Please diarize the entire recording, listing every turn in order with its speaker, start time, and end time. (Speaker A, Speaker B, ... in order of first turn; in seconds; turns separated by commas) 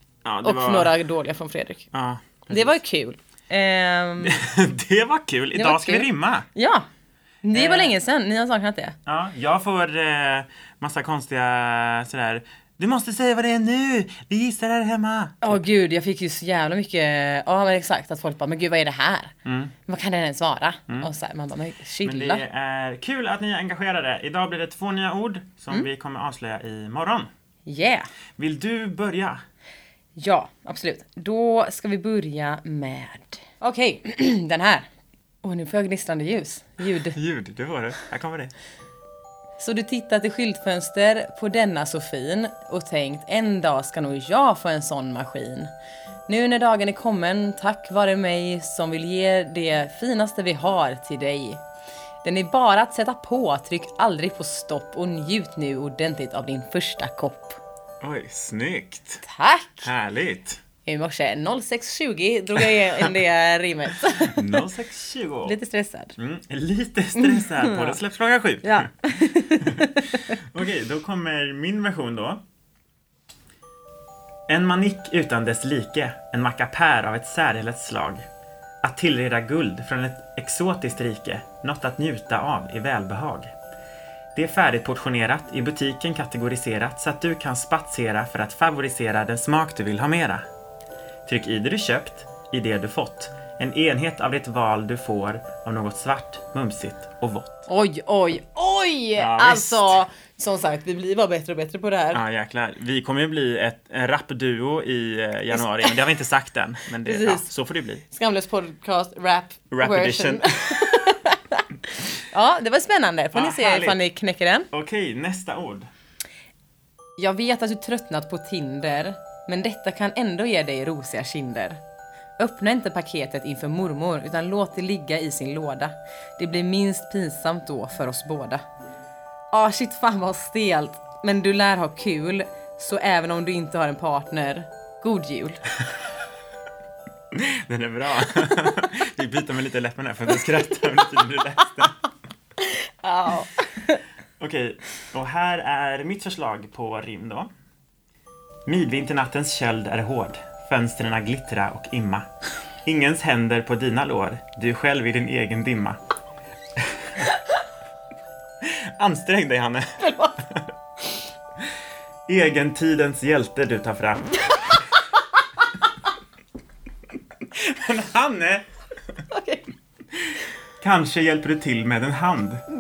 Speaker A: 0.2-0.9, Speaker B: 0.4-1.9, Speaker A: 1.9-2.8, Speaker B: 2.5-4.4, Speaker A: 4.2-6.5, Speaker B: 5.5-6.9, Speaker B: 7.4-9.0, Speaker A: 7.5-7.9, Speaker A: 9.1-15.6, Speaker B: 15.4-19.3, Speaker A: 19.4-19.7, Speaker B: 19.9-22.4, Speaker A: 22.0-27.3, Speaker B: 27.7-28.1, Speaker A: 28.4-29.4, Speaker B: 30.2-34.9, Speaker B: 35.4-37.2, Speaker A: 37.1-38.5, Speaker B: 39.6-45.7, Speaker B: 46.3-51.6, Speaker B: 52.2-57.6, Speaker A: 58.0-59.2, Speaker B: 59.2-59.9, Speaker A: 59.8-60.6, Speaker B: 60.9-64.6, Speaker A: 64.2-65.6, Speaker B: 65.5-66.1, Speaker A: 66.2-68.9, Speaker B: 67.2-68.0, Speaker B: 68.6-70.4, Speaker A: 69.6-72.4, Speaker A: 74.5-78.2, Speaker A: 78.8-83.5, Speaker A: 84.3-90.4, Speaker A: 91.3-97.7, Speaker B: 97.7-102.2, Speaker A: 99.2-100.0, Speaker A: 102.1-108.0, Speaker B: 105.5-106.0, Speaker B: 107.0-107.5, Speaker B: 108.1-114.7, Speaker A: 109.7-111.0, Speaker A: 113.3-114.0, Speaker A: 114.7-115.9, Speaker B: 117.2-121.8, Speaker B: 122.4-128.6, Speaker B: 129.5-135.6, Speaker A: 137.3-142.0, Speaker B: 143.0-144.0, Speaker A: 144.4-147.5, Speaker A: 148.7-152.3, Speaker A: 152.8-156.0, Speaker A: 158.6-160.7, Speaker B: 160.0-160.4, Speaker A: 162.3-164.4, Speaker A: 167.5-168.7, Speaker B: 169.3-169.7, Speaker A: 170.8-172.6